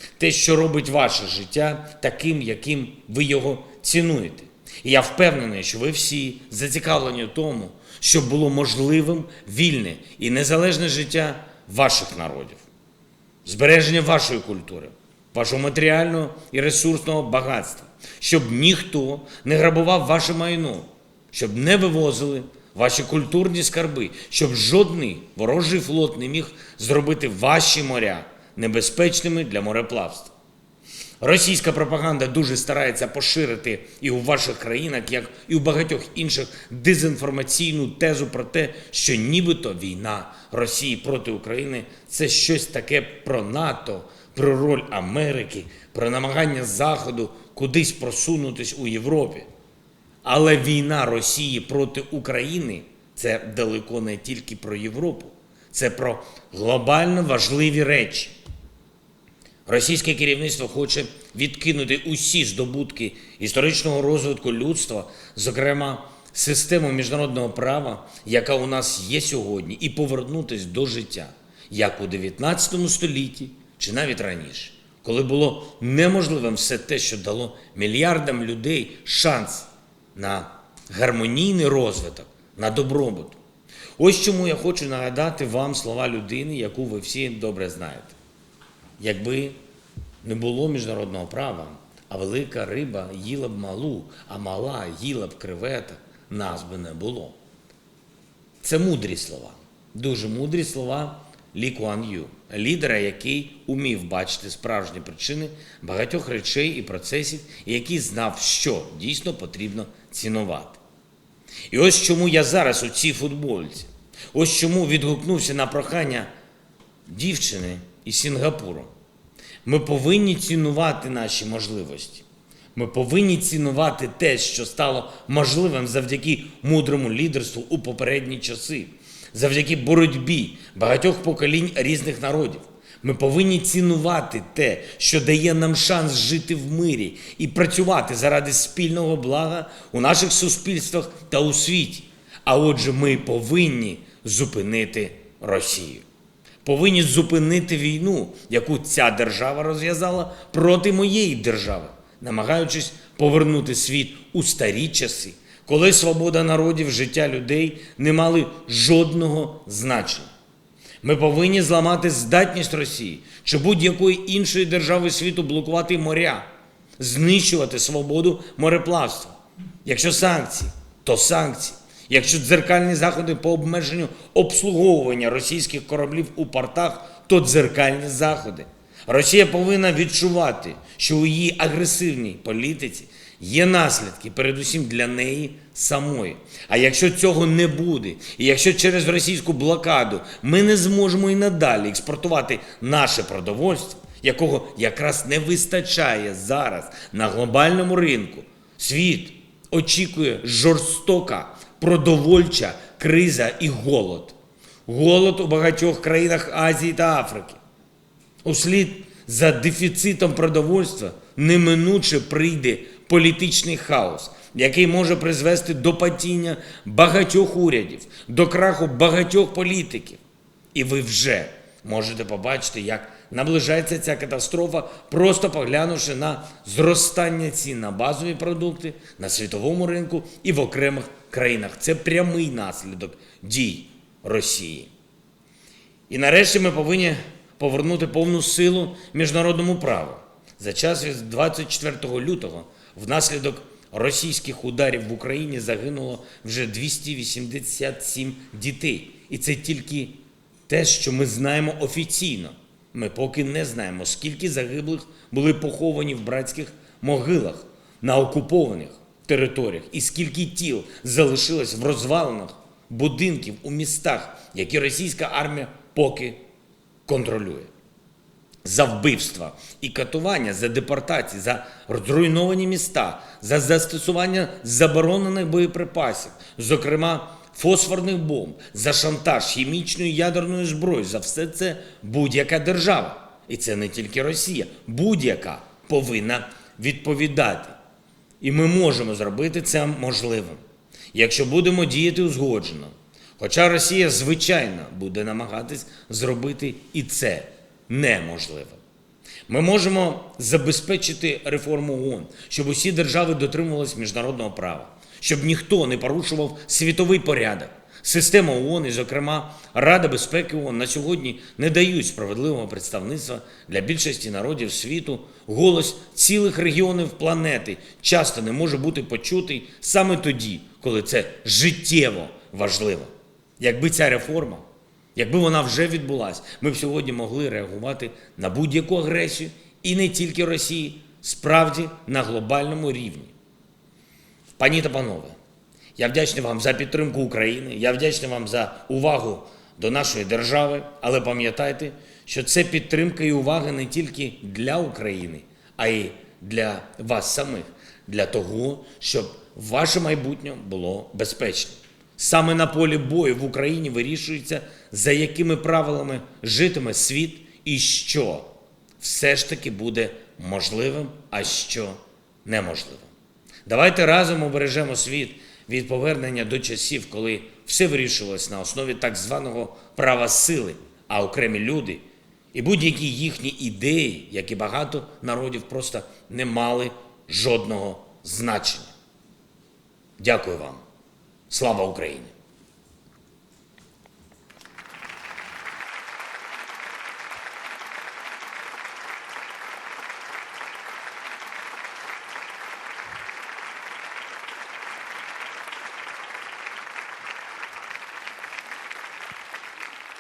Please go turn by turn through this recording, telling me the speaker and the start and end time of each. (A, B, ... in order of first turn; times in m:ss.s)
0:00.2-0:12.6 A
0:13.4-0:30.3 A
0:31.2-0:49.5 A
0:50.2-0:58.4 A
0:59.7-1:23.4 A
1:24.0-1:28.2 A
1:29.0-1:29.6 A
1:30.2-1:37.4 A
1:38.6-1:50.8 A
1:51.7-1:56.3 A
1:57.1-1:58.9 A
1:59.6-2:26.0 A
2:26.6-2:40.3 A
2:41.0-3:24.4 A
3:24.9-3:27.6 A
3:28.4-3:40.2 A
3:40.7-3:54.9 A
3:56.1-4:26.4 A
4:27.1-4:27.7 A
4:28.6-4:47.8 A
4:48.4-4:50.6 A
4:51.1-4:58.8 A
4:59.5-5:33.3 A
5:34.6-5:35.4 A
5:36.0-6:03.1 A
6:03.7-6:18.9 A
6:20.2-6:20.8 A
6:21.5-6:22.3 A